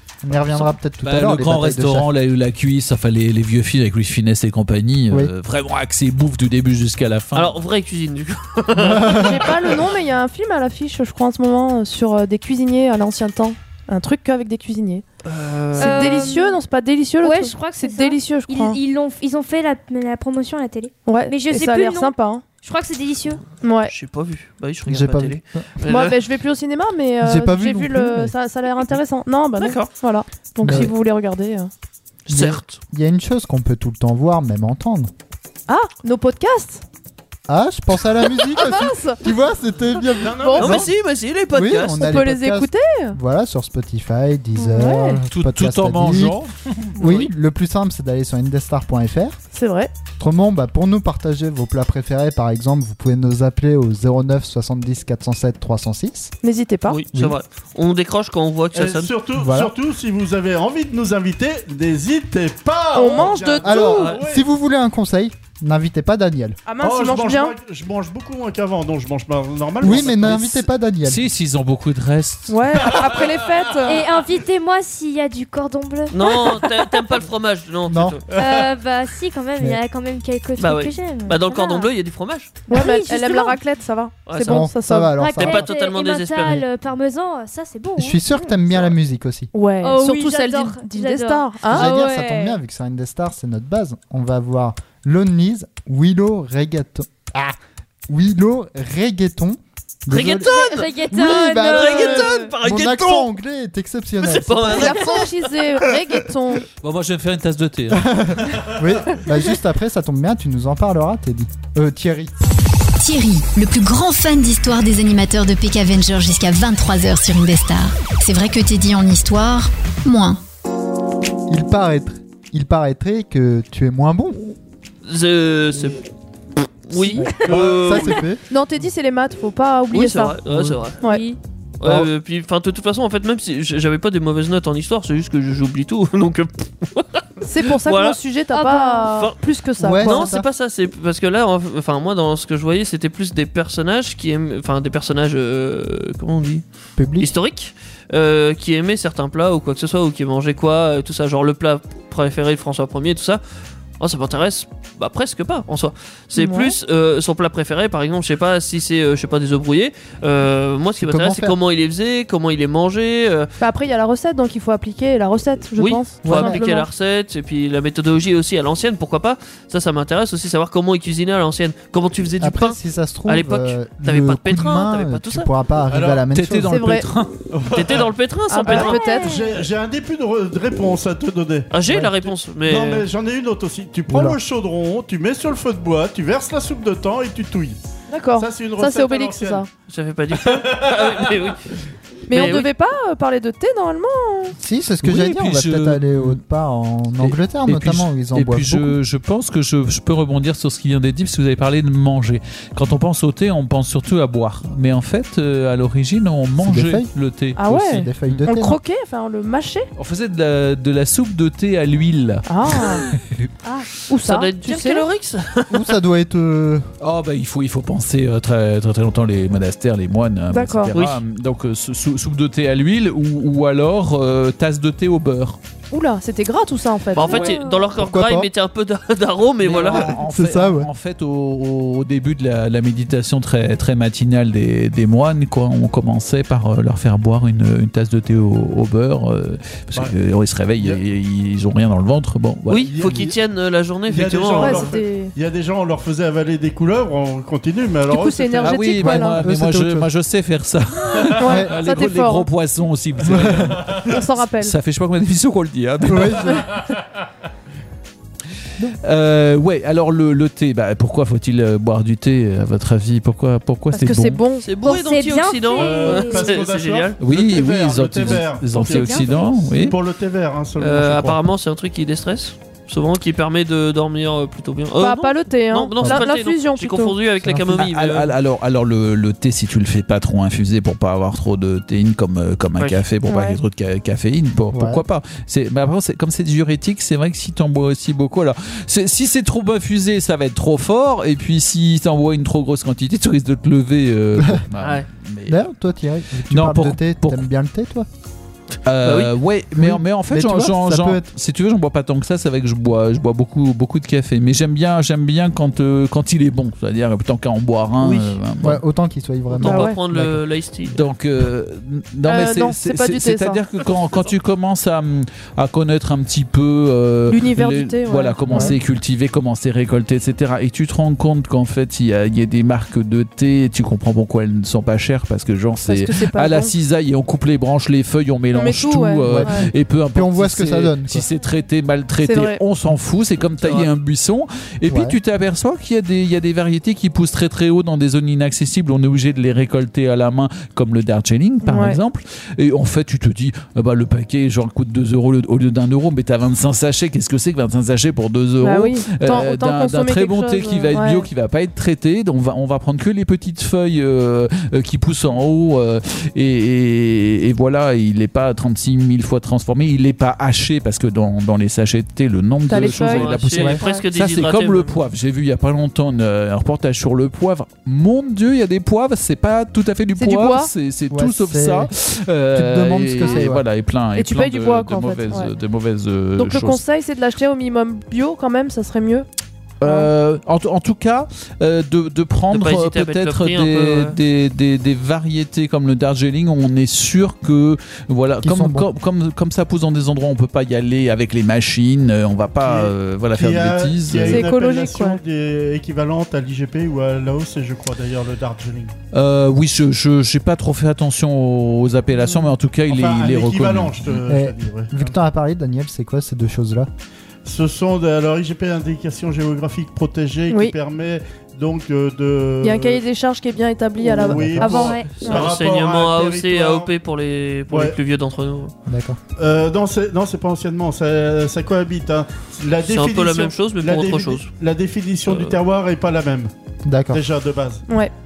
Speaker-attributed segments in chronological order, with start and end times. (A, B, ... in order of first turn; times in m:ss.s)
0:00.2-0:02.1 A
0:01.0-0:07.6 B
0:07.3-0:09.6 C
0:08.7-0:09.4 A
0:09.1-0:15.0 D
0:15.2-0:16.2 C
0:15.8-0:16.6 E
0:15.8-0:18.8 D
0:17.2-0:23.4 E
0:21.0-0:22.4 D
0:23.6-0:23.9 D
0:23.9-0:26.2 C
0:24.9-0:25.6 A
0:25.8-0:31.7 D
0:27.2-0:28.3 A
0:29.6-0:29.9 C
0:30.6-0:30.9 A
0:32.3-0:32.8 C
0:32.3-0:35.1 A
0:35.7-0:36.8 D
0:37.5-0:40.9 A
0:38.5-0:39.2 D
0:40.2-0:40.9 F
0:40.3-0:40.8 D
0:40.6-0:42.0 C
0:41.5-0:46.4 A
0:42.0-0:43.2 D
0:44.6-0:45.2 D
0:45.3-0:46.5 B
0:47.0-0:49.4 A
0:47.0-0:47.3 C
0:49.5-0:49.9 D
0:50.2-0:56.3 A
0:56.4-0:57.0 D
0:56.9-0:59.1 C
0:58.7-1:04.4 F
0:59.3-0:59.7 A
1:02.9-1:04.1 D
1:03.6-1:06.6 A
1:03.9-1:04.2 C
1:06.6-1:07.5 D
1:06.8-1:10.7 F
1:09.8-1:11.3 A
1:11.0-1:12.8 B
1:12.5-1:14.0 D
1:12.9-1:13.5 F
1:13.8-1:17.1 E
1:16.1-1:18.2 C
1:17.9-1:18.2 A
1:18.3-1:21.9 E
1:18.3-1:18.7 F
1:20.6-1:22.6 C
1:22.7-1:23.6 E
1:22.7-1:25.1 D
1:24.3-1:24.7 C
1:24.4-1:25.7 A
1:25.1-1:28.2 E
1:25.4-1:26.6 C
1:28.0-1:29.5 A
1:29.5-1:31.9 D
1:29.8-1:32.6 E
1:31.7-1:37.5 A
1:38.1-1:40.5 A
1:40.1-1:43.3 C
1:40.3-1:42.5 E
1:41.1-1:45.0 A
1:44.2-1:45.4 C
1:44.7-1:46.6 D
1:46.8-1:48.1 B
1:47.9-1:52.3 A
1:48.5-1:48.8 F
1:53.0-2:00.4 G
2:01.5-2:04.5 A
2:05.0-2:06.0 C
2:06.6-2:08.2 C
2:07.1-2:08.4 A
2:07.4-2:08.1 F
2:08.5-2:10.4 D
2:09.9-2:11.0 C
2:10.5-2:10.8 A
2:11.0-2:11.4 E
2:11.8-2:18.2 C
2:11.8-2:12.1 A
2:17.4-2:20.3 D
2:18.5-2:19.2 E
2:19.8-2:20.5 A
2:19.9-2:26.6 C
2:27.0-2:27.3 A
2:27.2-2:33.4 C
2:34.0-2:43.5 C
2:36.4-2:36.8 D
2:41.0-2:41.6 A
2:43.6-2:46.9 D
2:45.8-2:55.5 C
2:46.2-2:46.6 A
2:52.4-2:56.8 A
2:55.9-2:56.2 F
2:56.3-2:57.4 B
2:56.7-2:57.1 D
2:57.5-2:58.1 F
2:57.7-2:59.1 C
2:58.5-2:59.3 D
2:58.7-2:59.6 E
2:58.7-3:01.7 F
3:01.7-3:03.1 C
3:02.6-3:07.8 F
3:04.1-3:04.4 A
3:08.1-3:09.7 D
3:08.4-3:09.6 F
3:09.9-3:11.7 C
3:10.3-3:11.5 F
3:12.3-3:14.5 D
3:12.3-3:12.7 C
3:14.6-3:19.0 A
3:15.0-3:16.4 B
3:17.2-3:28.4 B
3:26.6-3:27.1 A
3:27.6-3:29.9 D
3:27.7-3:28.8 A
3:30.0-3:33.5 B
3:32.4-3:33.0 D
3:34.0-3:35.0 D
3:34.2-3:36.0 C
3:35.7-3:36.9 A
3:37.0-3:45.6 B
3:40.5-3:40.9 D
3:40.9-3:41.2 C
3:45.9-3:47.5 D
3:47.1-3:50.2 C
3:47.2-3:47.9 E
3:48.0-3:48.5 A
3:49.6-4:02.9 B
3:49.9-3:50.9 A
4:00.8-4:01.0 F
4:02.7-4:04.9 C
4:02.8-4:03.3 F
4:04.1-4:08.9 F
4:04.6-4:05.3 D
4:08.1-4:09.4 D
4:08.6-4:14.0 B
4:09.0-4:10.1 A
4:11.4-4:12.5 D
4:11.4-4:11.7 A
4:13.2-4:13.8 A
4:13.8-4:14.1 F
4:14.0-4:14.7 D
4:14.6-4:16.6 B
4:16.0-4:16.7 A
4:16.6-4:16.9 F
4:19.0-4:24.4 B
4:23.9-4:24.6 D
4:24.6-4:27.2 C
4:24.8-4:26.6 E
4:25.8-4:31.4 F
4:27.2-4:30.0 B
4:28.9-4:29.2 E
4:30.8-4:38.3 C
4:35.0-4:37.2 D
4:37.4-4:37.8 A
4:37.7-4:55.6 B
4:43.2-4:43.6 D
4:44.7-4:45.0 A
4:54.8-4:55.0 C
4:55.5-4:58.1 A
4:56.5-4:57.4 B
4:58.8-5:08.8 B
4:59.0-4:59.3 C
4:59.8-5:01.2 A
5:08.0-5:08.4 C
5:08.6-5:10.4 A
5:09.5-5:11.0 C
5:09.6-5:10.0 D
5:10.9-6:16.8 B
5:12.2-5:13.6 D
5:17.3-5:18.7 D
5:18.5-5:18.8 A
5:25.8-5:26.7 D
5:28.5-5:29.7 D
5:29.2-5:31.3 A
5:32.2-5:32.6 D
5:33.5-5:33.9 C
5:34.9-5:35.2 A
5:41.6-5:42.0 D
5:48.6-5:51.3 D
6:02.7-6:04.0 D
6:02.7-6:05.0 C
6:03.5-6:03.8 A
6:10.2-6:10.7 D
6:11.1-6:11.9 A
6:12.5-6:13.6 A
6:14.1-6:15.5 D
6:16.4-6:19.3 D
6:19.8-6:34.5 B
6:19.8-6:20.1 D
6:22.5-6:24.2 C
6:28.4-6:28.9 A
6:32.6-6:38.9 F
6:34.2-6:35.2 D
6:39.1-6:44.2 B
6:42.9-6:45.2 F
6:44.2-6:46.9 A
6:47.4-6:53.0 F
6:50.5-6:50.7 D
6:52.6-6:55.4 D
6:54.0-6:56.9 F
6:54.2-6:54.8 A
6:54.6-6:55.2 E
6:55.2-6:58.7 C
6:57.7-6:58.0 F
6:58.9-6:59.2 A
6:59.4-7:06.5 F
7:02.8-7:04.5 C
7:05.3-7:05.6 C
7:06.8-7:07.2 A
7:07.1-7:07.8 F